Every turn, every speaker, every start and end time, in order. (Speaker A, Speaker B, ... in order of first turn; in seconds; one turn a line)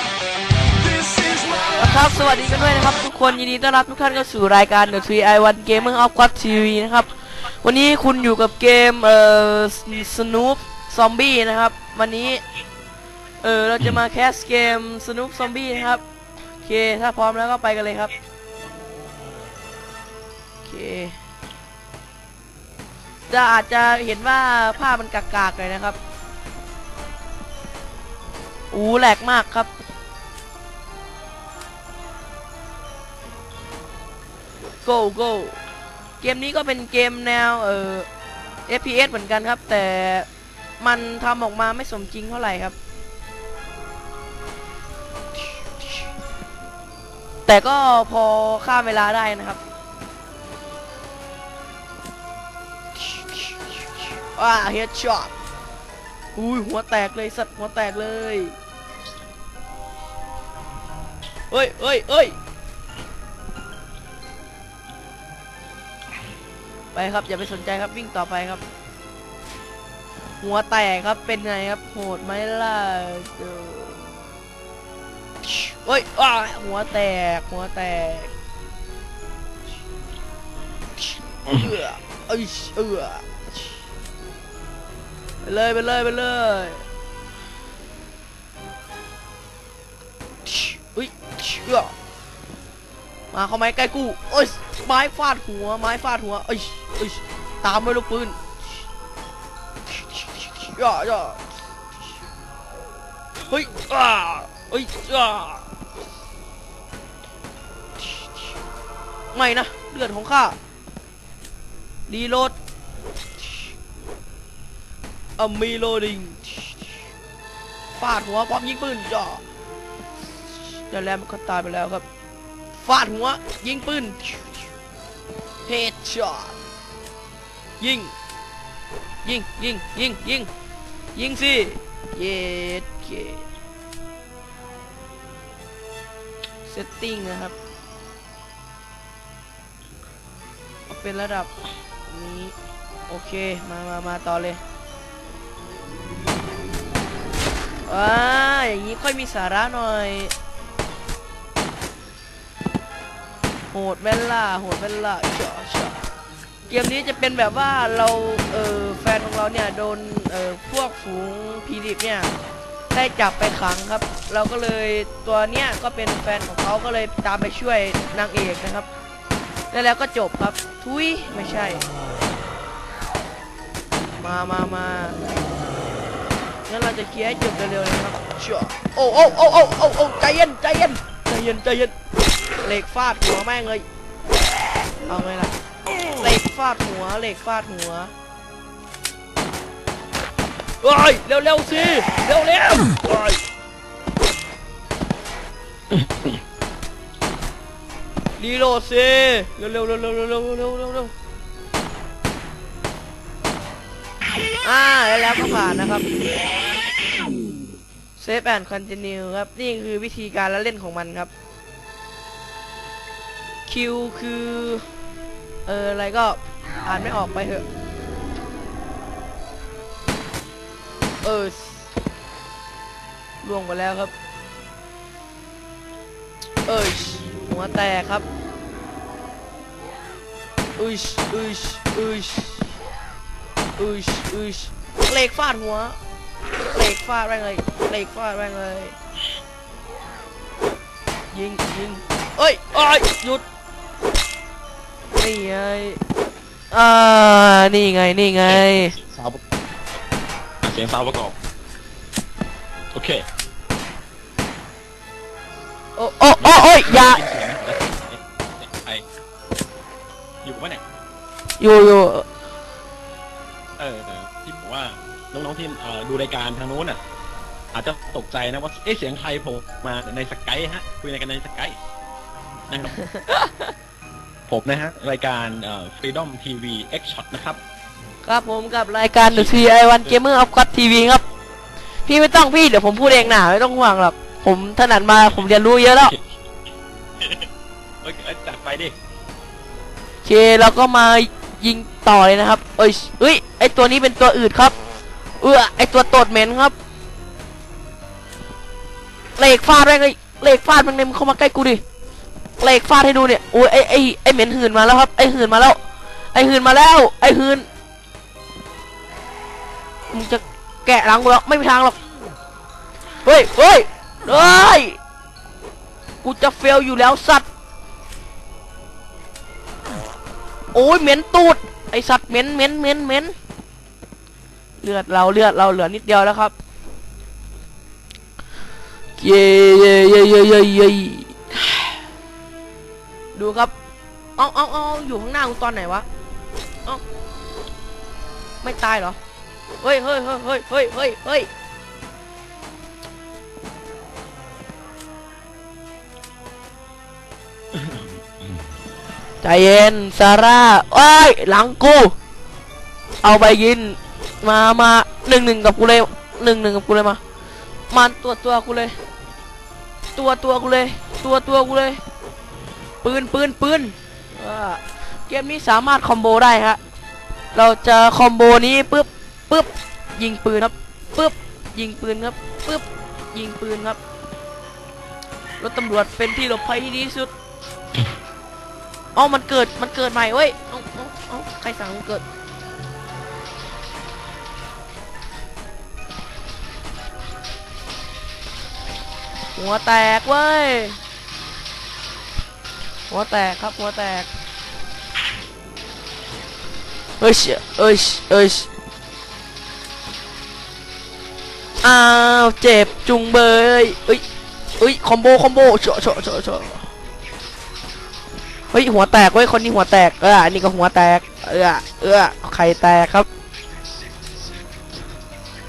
Speaker A: 0.7-3.0
Speaker B: 1.8-12.4
Speaker B: 13.4-16.0
Speaker B: 16.6-18.1
Speaker B: 20.6-21.2
Speaker B: 23.3-26.0
Speaker B: 28.7-29.7
Speaker B: 34.8-35.6
Speaker B: 36.2-38.1
Speaker B: 38.7-40.3
Speaker B: 40.8-42.8
Speaker B: 47.5-49.6
Speaker B: 54.3-55.3
Speaker B: 56.3-58.5
Speaker B: 61.5-62.4
Speaker B: 66.9-68.6
Speaker B: 70.4-74.0
Speaker B: 75.5-78.3
Speaker B: 81.0-83.4
Speaker B: 85.4-86.8
Speaker B: 90.5-91.9
Speaker B: 93.3-98.4
Speaker B: 99.9-101.4
Speaker B: 103.5-105.6
Speaker B: 109.3-110.5
Speaker B: 112.1-112.5
Speaker B: 115.4-116.8
Speaker B: 117.9-119.4
Speaker B: 120.5-122.0
Speaker B: 122.8-124.6
Speaker B: 125.7-126.5
Speaker B: 127.8-128.1
Speaker B: 129.2-130.5
Speaker B: 131.1-133.4
Speaker B: 136.7-137.5
Speaker B: 140.9-141.5
Speaker B: 142.1-142.5
Speaker B: 143.1-144.6
Speaker B: 147.8-150.3
Speaker B: 153.7-156.0
Speaker B: 156.7-162.3
Speaker B: 162.9-168.9
Speaker B: 169.7-171.8
Speaker B: 174.2-175.2
Speaker B: 176.7-181.9
Speaker B: 182.6-183.8
Speaker B: 185.1-185.5
Speaker B: 186.2-188.1
Speaker B: 190.8-193.4
Speaker C: 196.0-196.3
Speaker B: 198.4-201.1
Speaker B: 204.6-206.1
Speaker B: 208.2-211.3
Speaker B: 213.7-214.9
Speaker B: 215.7-217.7
Speaker B: 221.2-221.9
Speaker B: 223.4-224.1
Speaker B: 226.7-228.2
Speaker B: 230.8-232.7
Speaker B: 233.8-236.0
Speaker B: 236.7-238.9
Speaker B: 241.3-243.4
Speaker B: 245.1-246.0
Speaker B: 246.7-248.9
Speaker C: 248.4-249.4
Speaker C: 250.6-251.3
Speaker C: 252.9-253.2
Speaker B: 255.9-257.2
Speaker C: 256.4-259.0
Speaker C: 260.4-260.8
Speaker B: 261.6-262.3
Speaker C: 263.8-267.0
Speaker C: 267.7-271.8
Speaker C: 272.7-272.9
Speaker B: 273.0-273.7
Speaker C: 274.5-277.6
Speaker B: 278.2-281.2
Speaker C: 279.2-280.2
Speaker B: 282.1-286.1
Speaker C: 285.9-286.2
Speaker C: 287.2-287.5
Speaker C: 288.0-288.9
Speaker B: 290.2-294.7
Speaker B: 295.4-296.7
Speaker B: 299.4-301.8
Speaker B: 302.6-305.8
Speaker B: 306.3-307.7
Speaker B: 310.1-312.0
Speaker B: 313.2-315.0
Speaker B: 316.2-317.5
Speaker B: 320.7-323.3
Speaker B: 324.8-326.5
Speaker B: 329.2-331.9
Speaker B: 333.3-333.7
Speaker B: 334.4-336.1
Speaker B: 338.6-339.2
Speaker B: 339.8-341.5
Speaker C: 347.7-348.1
Speaker B: 349.4-352.1
Speaker B: 353.2-357.2
Speaker B: 357.9-358.9
Speaker B: 360.1-362.0
Speaker B: 363.0-366.8
Speaker B: 367.5-374.0
Speaker B: 375.6-377.3
Speaker B: 379.1-382.2
Speaker B: 389.5-391.0
Speaker B: 393.1-394.3
Speaker B: 397.2-398.7
Speaker B: 401.8-404.2
Speaker B: 404.8-406.9
Speaker B: 408.7-413.3